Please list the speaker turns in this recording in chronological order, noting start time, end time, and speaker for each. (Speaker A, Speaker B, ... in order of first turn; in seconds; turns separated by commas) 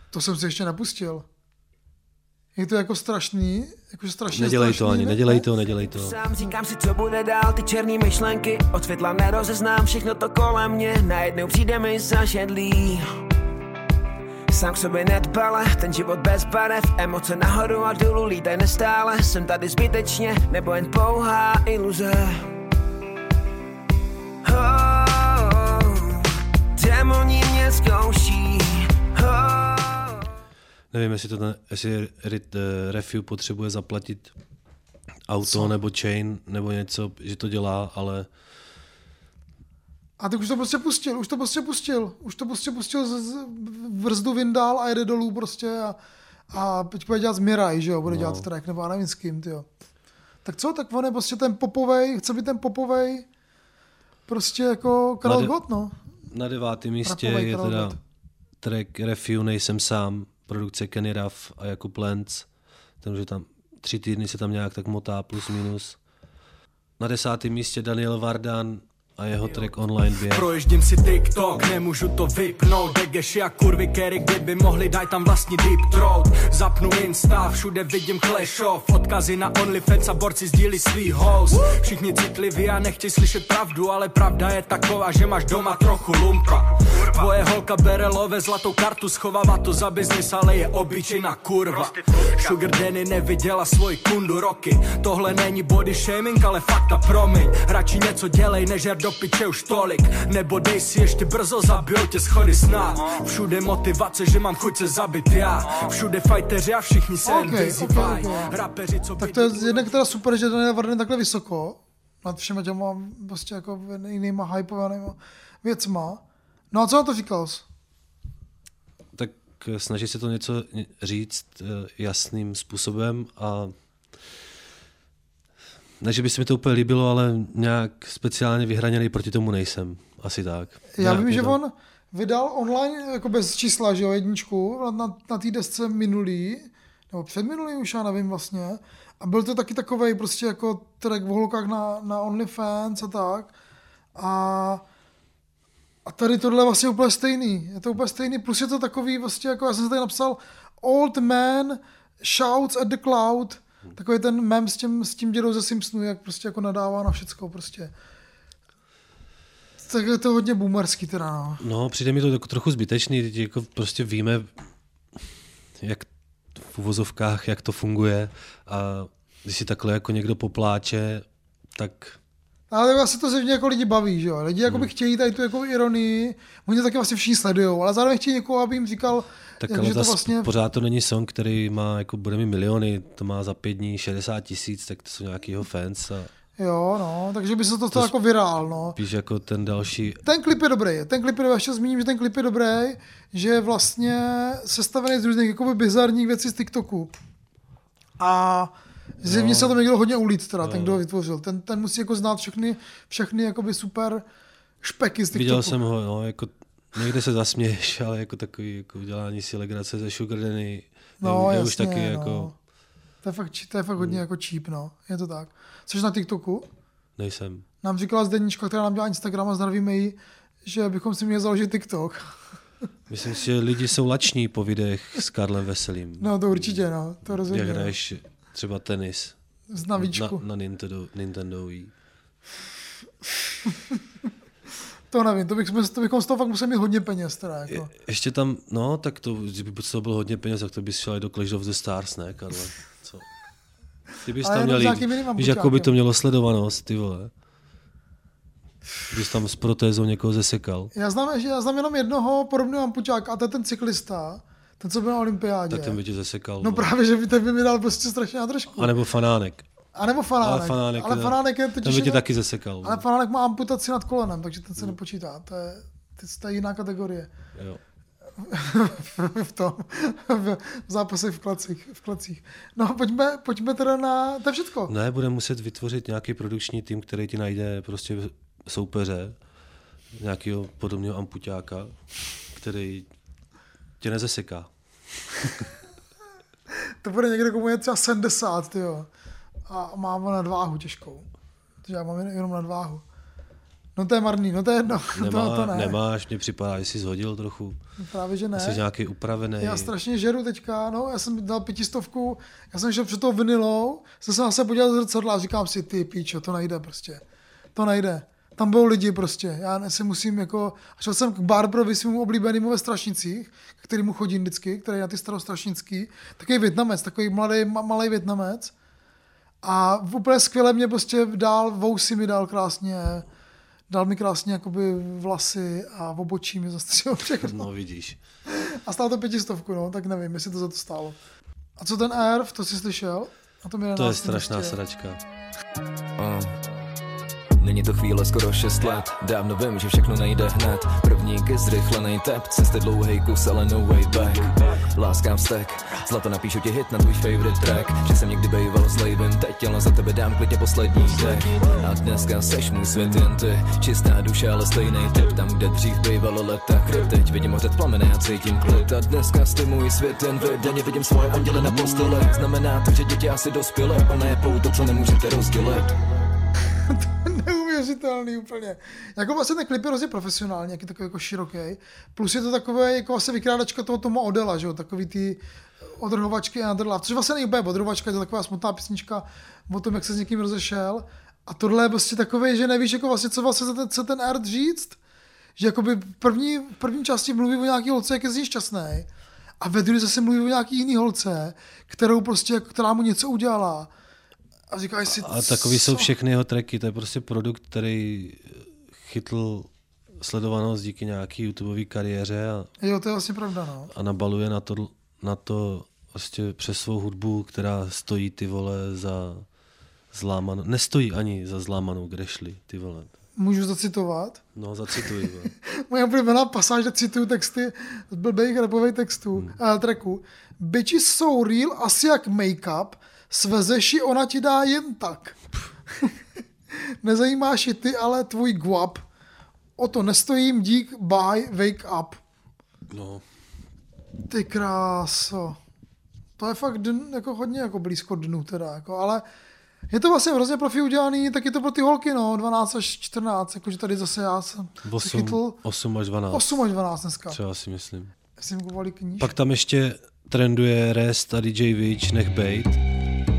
Speaker A: 0.1-1.3, Speaker A: 2.6-5.5, Speaker B: 4.3-6.2, Speaker C: 5.8-13.1, Speaker C: 14.5-22.5, Speaker C: 24.4-26.2, Speaker C: 26.8-30.2, Speaker B: 30.9-34.3, Speaker B: 35.3-38.3, Speaker A: 35.4-35.7, Speaker A: 40.2-46.0, Speaker A: 46.5-49.7, Speaker B: 48.1-48.5, Speaker A: 50.5-53.3, Speaker A: 54.3-56.0, Speaker B: 55.2-55.6, Speaker B: 56.3-58.0, Speaker A: 57.0-58.0, Speaker B: 58.6-62.5, Speaker B: 63.0-66.0, Speaker B: 67.0-70.5, Speaker D: 70.3-109.9, Speaker A: 107.2-108.6, Speaker A: 109.2-117.6, Speaker B: 119.1-123.7, Speaker B: 126.0-131.6, Speaker A: 130.9-143.5, Speaker A: 144.2-144.8, Speaker A: 146.1-157.9, Speaker A: 159.8-161.6, Speaker B: 161.6-164.5, Speaker B: 165.8-172.2, Speaker A: 172.7-180.5, Speaker B: 179.6-186.3, Speaker A: 186.6-189.0, Speaker B: 188.9-190.2, Speaker A: 190.2-197.1, Speaker A: 198.2-204.2, Speaker B: 199.2-199.8, Speaker B: 200.6-201.0, Speaker A: 204.8-205.8, Speaker B: 205.3-212.5, Speaker A: 211.2-212.5, Speaker A: 213.2-216.7, Speaker B: 214.0-214.2, Speaker B: 217.2-217.6, Speaker A: 217.8-222.3, Speaker B: 223.1-229.4, Speaker A: 226.2-227.9, Speaker A: 229.7-230.4, Speaker B: 230.0-231.9, Speaker A: 235.1-237.9, Speaker B: 237.7-243.3, Speaker B: 244.2-247.3, Speaker A: 244.4-245.9, Speaker B: 249.1-250.9, Speaker A: 250.9-256.0, Speaker B: 255.7-256.9, Speaker A: 256.6-258.9, Speaker B: 258.8-259.6, Speaker A: 260.0-262.2, Speaker B: 260.4-263.0, Speaker A: 262.8-267.3, Speaker A: 268.4-274.9, Speaker B: 274.9-279.4, Speaker B: 280.1-281.9, Speaker B: 282.5-283.1, Speaker B: 284.0-284.7, Speaker A: 287.0-289.1, Speaker A: 289.7-291.3, Speaker A: 291.9-293.0, Speaker A: 294.0-296.0, Speaker B: 295.1-297.8, Speaker A: 298.0-298.8, Speaker B: 298.6-299.9, Speaker A: 299.6-307.2, Speaker A: 307.8-318.7, Speaker A: 319.6-323.3, Speaker A: 323.9-327.7, Speaker B: 327.4-328.2, Speaker A: 328.5-331.2, Speaker A: 331.8-334.8, Speaker B: 334.0-335.2, Speaker E: 336.2-336.5, Speaker E: 337.6-365.9, Speaker A: 366.9-375.4, Speaker A: 376.0-385.0, Speaker A: 385.6-389.1, Speaker A: 389.6-393.9, Speaker A: 394.7-396.1, Speaker B: 395.1-402.7, Speaker A: 402.8-403.9, Speaker B: 403.9-409.4, Speaker B: 410.1-413.1, Speaker A: 413.4-414.4, Speaker B: 414.6-415.5, Speaker A: 415.5-425.4, Speaker A: 427.0-429.0, Speaker A: 429.8-432.2, Speaker B: 432.9-433.2, Speaker A: 434.3-435.6, Speaker A: 436.4-439.2, Speaker A: 439.9-445.6, Speaker B: 444.8-446.6, Speaker A: 446.3-447.4, Speaker B: 447.3-448.1, Speaker A: 448.4-449.3, Speaker B: 449.2-452.8